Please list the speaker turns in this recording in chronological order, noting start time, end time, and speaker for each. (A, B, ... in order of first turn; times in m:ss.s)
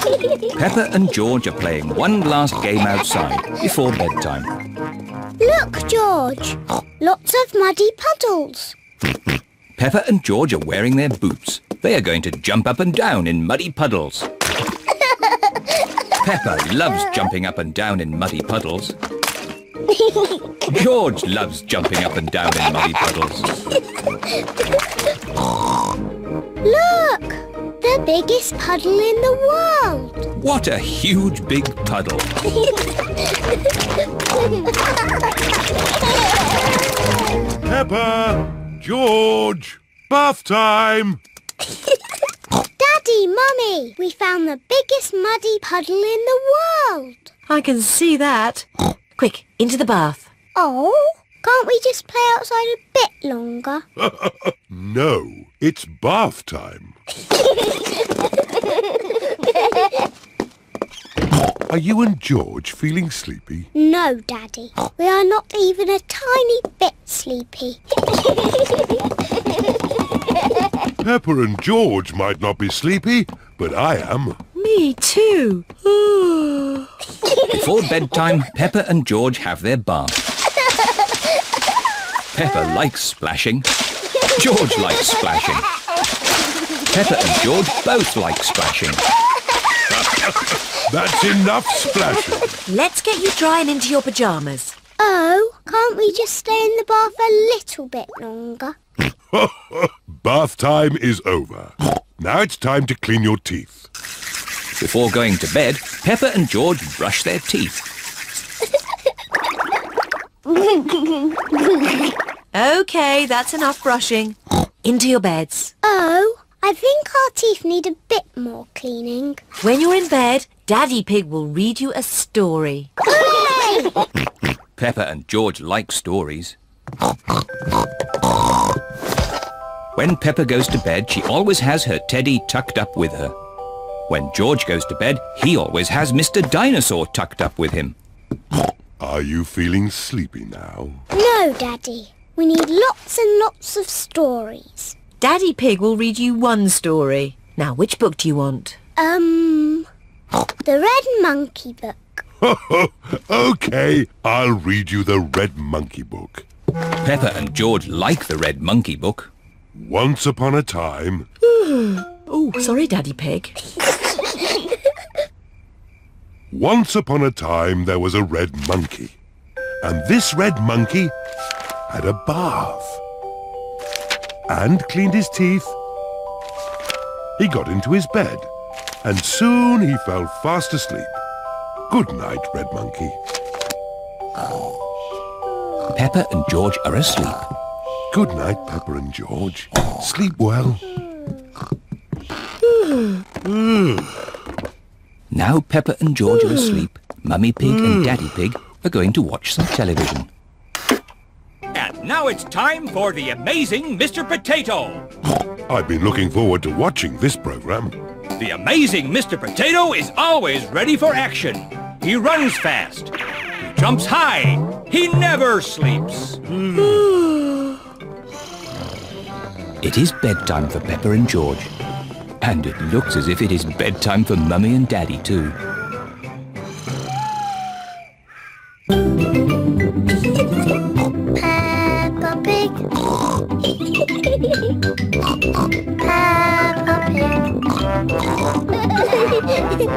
0:00.5-0:04.5 A
0:05.4-0:08.8 B
0:09.8-0:14.3 A
0:16.2-0:19.0 A
0:20.0-0:20.6 B
0:20.6-0:23.5 A
0:26.6-0:30.3 B
0:30.4-0:32.3 A
0:37.6-0:41.2 C
0:42.8-0:47.3 B
0:47.5-0:50.3 D
0:50.5-0:53.8 B
0:54.0-0:57.0 C
1:01.7-1:03.7 C
1:03.7-1:07.8 B
1:11.0-1:14.4 C
1:14.6-1:16.9 D
1:17.4-1:20.2 A
1:22.3-1:23.6 A
1:24.2-1:25.7 A
1:26.9-1:29.0 A
1:30.1-1:32.6 C
1:32.6-1:34.8 D
1:35.0-1:38.8 B
1:39.3-1:43.9 C
1:44.8-1:47.8 A
1:52.5-1:55.7 D
1:55.8-1:59.4 B
1:59.6-2:02.9 D
2:03.0-2:03.9 B
2:04.8-2:06.6 A
2:10.0-2:13.3 A
2:14.1-2:18.0 A
2:19.0-2:21.0 C
2:21.1-2:25.0 B
2:25.2-2:28.8 D
2:29.0-2:29.9 B
2:30.6-2:32.2 B
2:32.4-2:36.4 C
2:37.0-2:39.3 A
2:39.7-2:41.3 C
2:41.4-2:43.6 D
2:46.5-2:49.2 C
2:49.8-2:51.1 C
2:51.9-2:53.0 C
2:54.5-2:55.7 C
2:57.4-2:58.5 C
2:59.0-3:01.1 C
3:01.9-3:03.2 C
3:05.9-3:07.4 A
3:08.1-3:10.9 C
3:15.3-3:20.3 A
3:21.7-3:25.1 A
3:25.7-3:28.0 C
3:28.4-3:36.4 A
3:39.8-3:41.7 A
3:42.4-3:45.6 A
3:51.4-3:52.9 B
3:56.0-3:57.5 B